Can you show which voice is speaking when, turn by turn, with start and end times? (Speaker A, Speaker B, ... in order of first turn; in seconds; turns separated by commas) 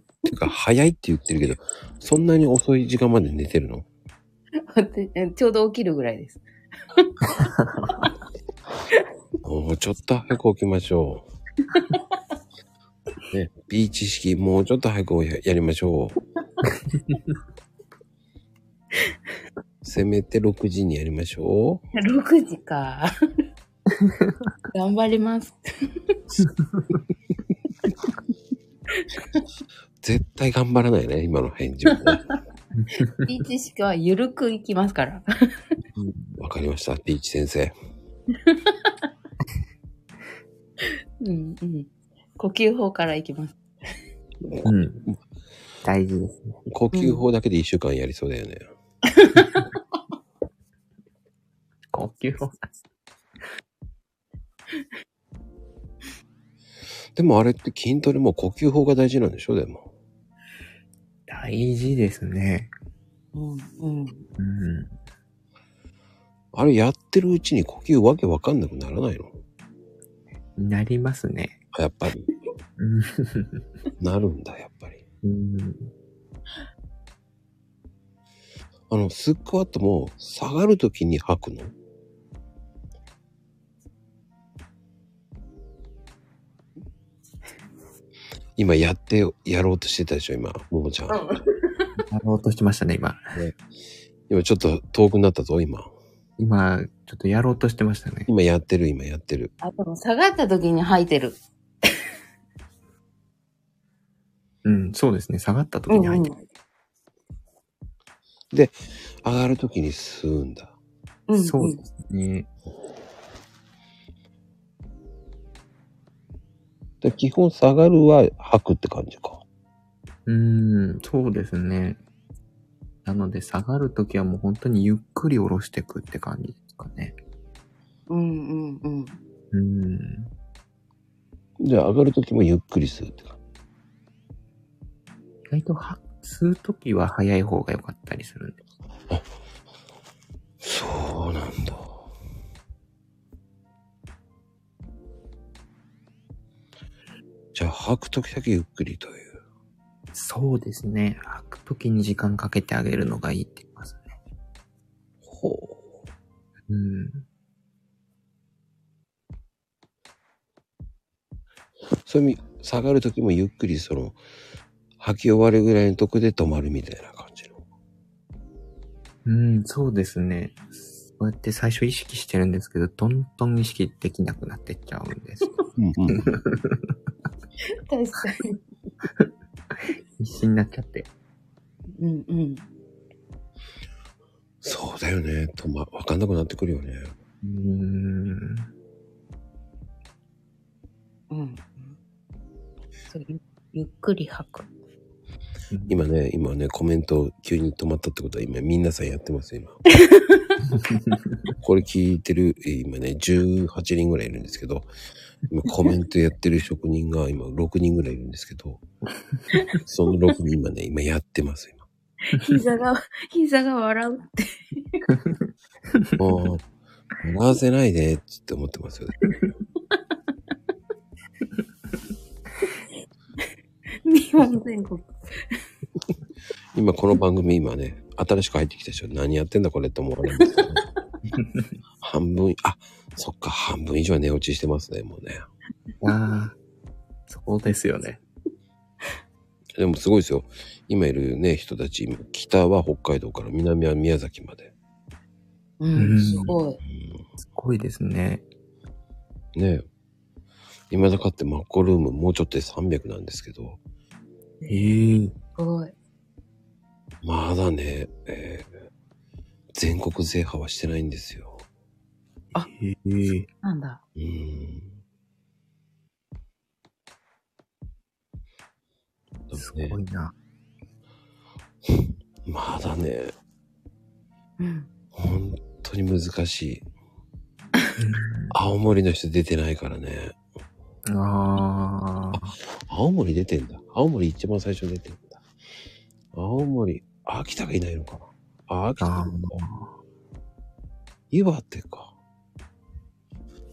Speaker A: 0.3-3.9, Speaker B: 4.6-6.4, Speaker C: 7.4-8.1, Speaker A: 9.4-11.2, Speaker B: 11.7-12.0, Speaker A: 13.3-16.2, Speaker A: 19.8-21.8, Speaker B: 21.9-23.1, Speaker C: 24.0-24.3, Speaker B: 24.7-25.6, Speaker B: 29.0-29.4, Speaker A: 30.0-32.2, Speaker B: 31.9-32.2, Speaker C: 32.8-33.2, Speaker B: 33.2-35.6, Speaker C: 35.9-36.4, Speaker A: 36.4-37.7, Speaker B: 38.3-38.9, Speaker B: 41.2-43.6, Speaker A: 44.4-45.2, Speaker C: 44.6-45.0, Speaker C: 45.8-46.6, Speaker A: 46.7-48.6, Speaker B: 46.9-47.2, Speaker B: 49.2-49.6, Speaker C: 51.9-52.6, Speaker A: 57.1-59.9, Speaker C: 61.3-62.7, Speaker B: 63.3-64.2, Speaker C: 64.4-64.9, Speaker A: 66.5-69.3, Speaker C: 70.6-71.6, Speaker A: 71.7-72.3, Speaker C: 72.8-73.6, Speaker A: 74.0-75.0, Speaker C: 75.2-75.9, Speaker A: 78.9-81.7, Speaker A: 88.5-91.2, Speaker B: 91.1-91.9, Speaker C: 92.1-93.2, Speaker A: 94.3-95.9, Speaker C: 96.4-98.3, Speaker A: 98.3-99.5, Speaker B: 99.6-101.9, Speaker C: 104.6-106.3, Speaker B: 105.9-106.4, Speaker A: 108.5-110.7, Speaker B: 111.3-111.8, Speaker C: 111.3-112.5, Speaker A: 117.0-119.4, Speaker C: 120.2-122.0, Speaker C: 123.0-127.1, Speaker B: 128.1-129.2, Speaker C: 129.5-130.3, Speaker A: 131.6-133.4, Speaker C: 135.5-138.6, Speaker A: 140.6-142.0, Speaker A: 147.5-149.4, Speaker C: 150.1-154.1, Speaker A: 155.2-155.9, Speaker C: 156.7-157.2, Speaker A: 162.0-164.2, Speaker A: 165.0-167.6, Speaker C: 169.2-175.6, Speaker A: 175.8-176.2, Speaker C: 176.1-176.9, Speaker B: 177.8-178.6, Speaker C: 179.9-181.1, Speaker B: 182.0-182.6, Speaker A: 184.6-187.1, Speaker C: 187.4-188.7, Speaker B: 191.3-191.9, Speaker B: 193.1-194.7, Speaker C: 195.7-196.0, Speaker A: 195.9-199.8, Speaker B: 200.0-200.5, Speaker A: 201.6-204.9, Speaker A: 205.5-208.8, Speaker A: 209.8-211.8, Speaker B: 212.3-215.0, Speaker A: 216.2-216.6, Speaker A: 217.2-219.3, Speaker B: 224.0-225.6, Speaker A: 226.7-230.8, Speaker A: 232.0-235.4, Speaker C: 236.0-236.6, Speaker C: 237.3-238.2, Speaker A: 239.8-244.7, Speaker B: 245.8-246.8, Speaker C: 245.9-246.6, Speaker A: 246.8-247.2, Speaker C: 247.4-248.4, Speaker A: 249.5-249.8, Speaker A: 250.9-253.8, Speaker C: 254.7-255.3, Speaker B: 255.6-255.9, Speaker A: 257.2-258.7, Speaker A: 259.7-261.6, Speaker C: 262.6-263.5, Speaker B: 263.6-264.0, Speaker A: 264.1-264.9, Speaker A: 269.5-270.0, Speaker C: 269.5-270.3, Speaker A: 271.9-273.3, Speaker B: 274.6-274.9, Speaker A: 275.1-276.8, Speaker C: 278.0-278.5, Speaker A: 278.5-280.4, Speaker C: 281.1-282.6, Speaker A: 282.3-285.4, Speaker A: 286.3-289.5, Speaker C: 289.0-289.9, Speaker A: 291.3-292.1